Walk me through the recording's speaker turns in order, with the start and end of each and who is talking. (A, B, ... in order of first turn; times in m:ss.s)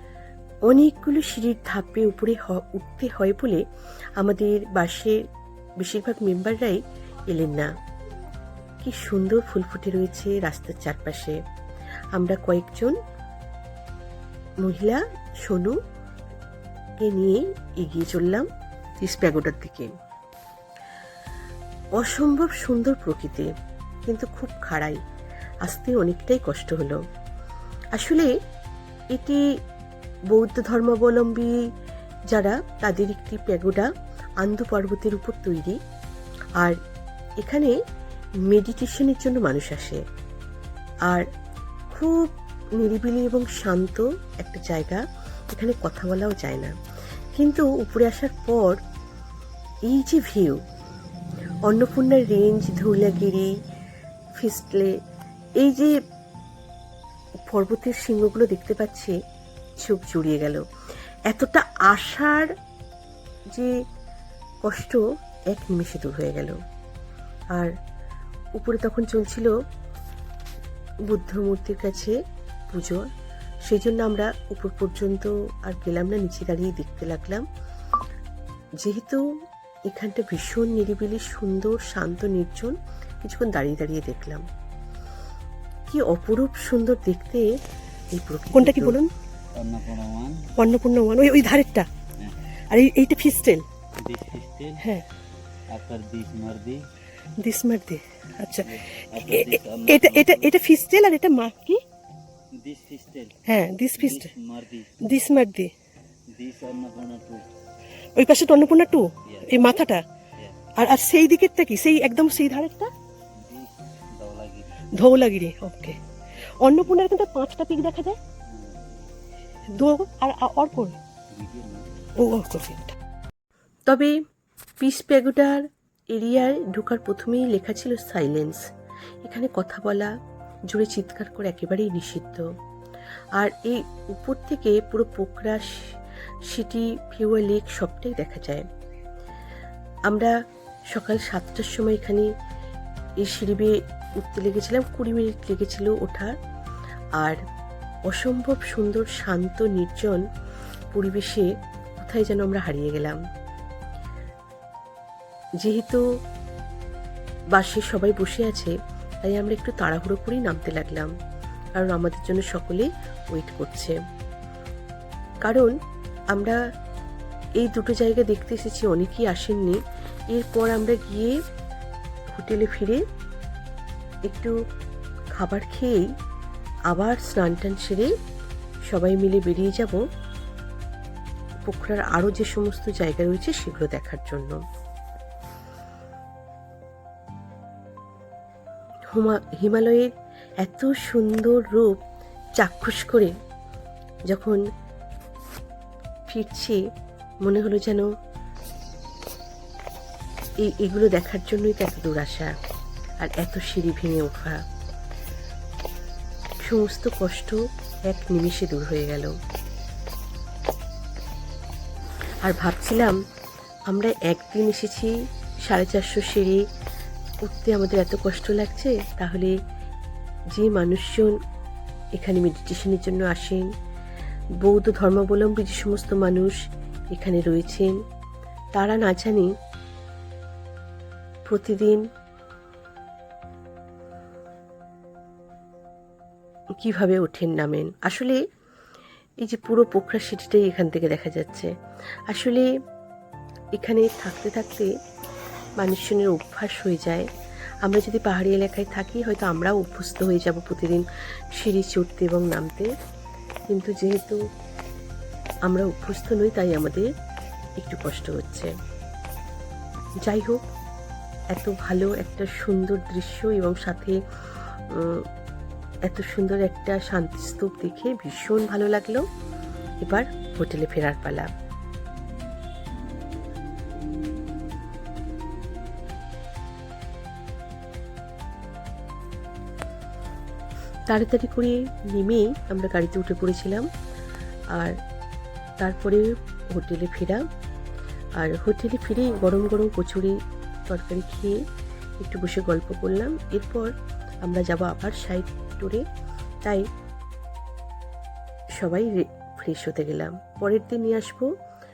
0:00.7-0:03.6 A
0:04.2-0:05.2 A
0:05.8-0:07.7 A
0:08.8-0:11.4 A
0:12.2-0:13.0 A
0:14.6-0:15.8 A
0:17.0-0:18.5 A
0:19.0-0:19.9 A
0:22.0-0:23.5 A
0:24.1-0:25.0 A
0:25.6-0:27.0 A
0:27.9-0:28.3 A
0:29.1-0:29.4 A
0:30.3-0:31.5 A
0:32.3-0:33.9 A
0:34.4-0:35.8 A
0:37.4-0:37.7 A
0:38.5-0:40.0 A
0:41.9-0:45.0 A
0:45.5-0:46.7 A
0:47.4-0:48.8 A
0:49.9-0:50.6 A
0:51.7-0:53.5 A
0:54.4-0:54.9 A
0:55.6-0:55.9 A
0:57.4-0:59.1 A
0:59.8-1:00.6 A
1:01.3-1:02.5 A
1:04.6-1:05.0 A
1:05.5-1:06.5 A
1:08.6-1:09.5 A
1:11.1-1:12.1 A
1:12.7-1:13.0 A
1:13.7-1:17.4 A
1:18.8-1:19.2 A
1:19.9-1:24.4 A
1:25.9-1:27.5 A
1:28.1-1:29.0 A
1:28.5-1:29.1 B
1:29.6-1:30.6 C
1:30.6-1:31.9 B
1:32.7-1:33.6 B
1:34.0-1:34.8 C
1:35.7-1:36.8 C
1:37.4-1:38.7 B
1:38.6-1:40.6 C
1:39.3-1:41.8 B
1:42.5-1:43.4 C
1:43.5-1:44.3 B
1:44.0-1:44.9 C
1:45.1-1:45.7 B
1:46.3-1:47.4 C
1:48.2-1:50.0 B
1:49.2-1:49.6 C
1:50.4-1:50.7 C
1:50.8-1:52.9 B
1:53.4-1:54.8 C
1:55.0-1:56.0 B
1:56.6-1:58.2 B
1:59.8-2:01.0 B
2:01.3-2:02.1 C
2:02.2-2:03.0 B
2:03.9-2:04.1 A
2:04.8-2:05.6 A
2:06.1-2:08.6 A
2:09.2-2:10.1 A
2:10.7-2:12.4 A
2:13.4-2:15.8 A
2:16.5-2:18.6 A
2:20.9-2:22.3 A
2:23.2-2:26.3 A
2:28.1-2:30.2 A
2:30.9-2:31.5 A
2:32.0-2:33.2 A
2:35.6-2:36.0 A
2:37.5-2:38.7 A
2:39.2-2:41.1 A
2:41.8-2:43.9 A
2:45.4-2:45.7 A
2:47.6-2:49.8 A
2:50.3-2:51.3 A
2:52.3-2:53.0 A
2:55.4-2:56.0 A
2:56.9-2:58.1 A
2:58.9-3:00.0 A
3:01.6-3:04.6 A
3:09.1-3:10.1 A
3:10.6-3:12.0 A
3:12.6-3:13.3 A
3:14.3-3:14.6 A
3:16.3-3:16.8 A
3:17.4-3:18.0 A
3:20.6-3:22.5 A
3:23.2-3:24.6 A
3:26.6-3:27.6 A
3:28.1-3:29.3 A
3:32.4-3:33.1 A
3:33.9-3:35.1 A
3:35.6-3:36.6 A
3:37.4-3:39.5 A
3:40.5-3:41.3 A
3:42.2-3:43.6 A
3:44.6-3:46.6 A
3:47.1-3:47.9 A
3:48.7-3:49.5 A
3:51.5-3:52.0 A
3:56.8-3:58.4 A
3:59.4-4:01.7 A
4:02.3-4:02.6 A
4:03.8-4:04.9 A
4:05.8-4:07.3 A
4:07.8-4:11.0 A
4:11.6-4:12.9 A
4:13.7-4:14.4 A
4:15.7-4:17.0 A
4:17.8-4:18.7 A
4:20.2-4:20.6 A
4:21.5-4:24.2 A
4:24.9-4:25.2 A
4:26.1-4:29.2 A
4:30.0-4:31.5 A
4:41.1-4:43.8 A
4:45.8-4:47.4 A
4:48.4-4:50.3 A
4:50.9-4:51.6 A
4:52.2-4:53.9 A
4:54.4-4:56.0 A
4:58.8-5:01.5 A